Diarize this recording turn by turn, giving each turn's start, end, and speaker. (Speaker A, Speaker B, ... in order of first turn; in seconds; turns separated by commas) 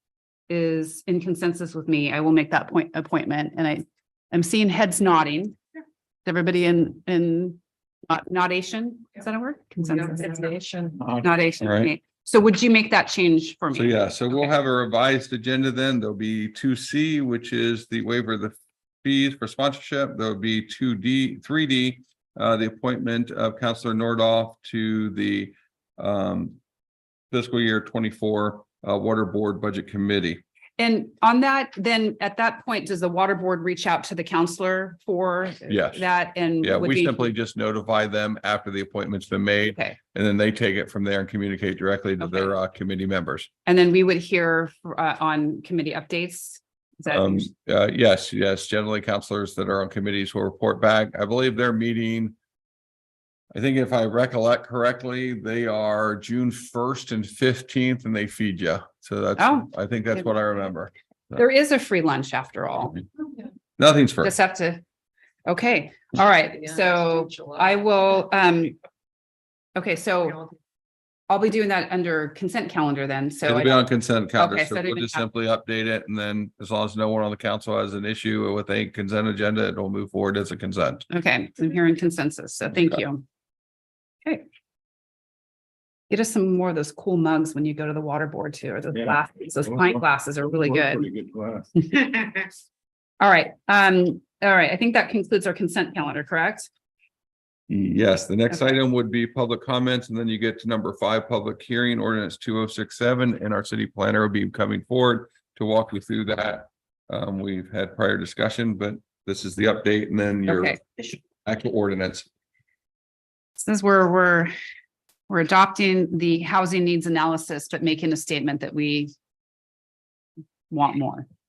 Speaker A: 0.5-5.6, Speaker A: 6.3-14.5, Speaker B: 11.6-11.9, Speaker B: 13.7-26.6, Speaker B: 27.3-30.4, Speaker A: 30.8-37.3, Speaker B: 35.7-36.1, Speaker B: 36.6-43.5, Speaker A: 39.6-40.0, Speaker A: 42.2-42.5, Speaker A: 43.7-47.5, Speaker B: 47.1-52.4, Speaker B: 53.5-61.3, Speaker A: 59.4-60.3, Speaker A: 61.4-63.0, Speaker B: 63.8-64.3, Speaker A: 64.2-64.8, Speaker A: 65.5-68.8, Speaker A: 69.8-70.5, Speaker A: 71.3-75.2, Speaker B: 73.5-81.0, Speaker A: 81.1-83.2, Speaker A: 86.1-91.1, Speaker C: 88.9-91.7, Speaker A: 91.9-92.4, Speaker A: 93.2-96.7, Speaker B: 97.7-110.8, Speaker A: 110.5-111.0, Speaker B: 111.4-112.2, Speaker A: 113.6-114.5, Speaker A: 115.3-119.1, Speaker A: 120.7-121.2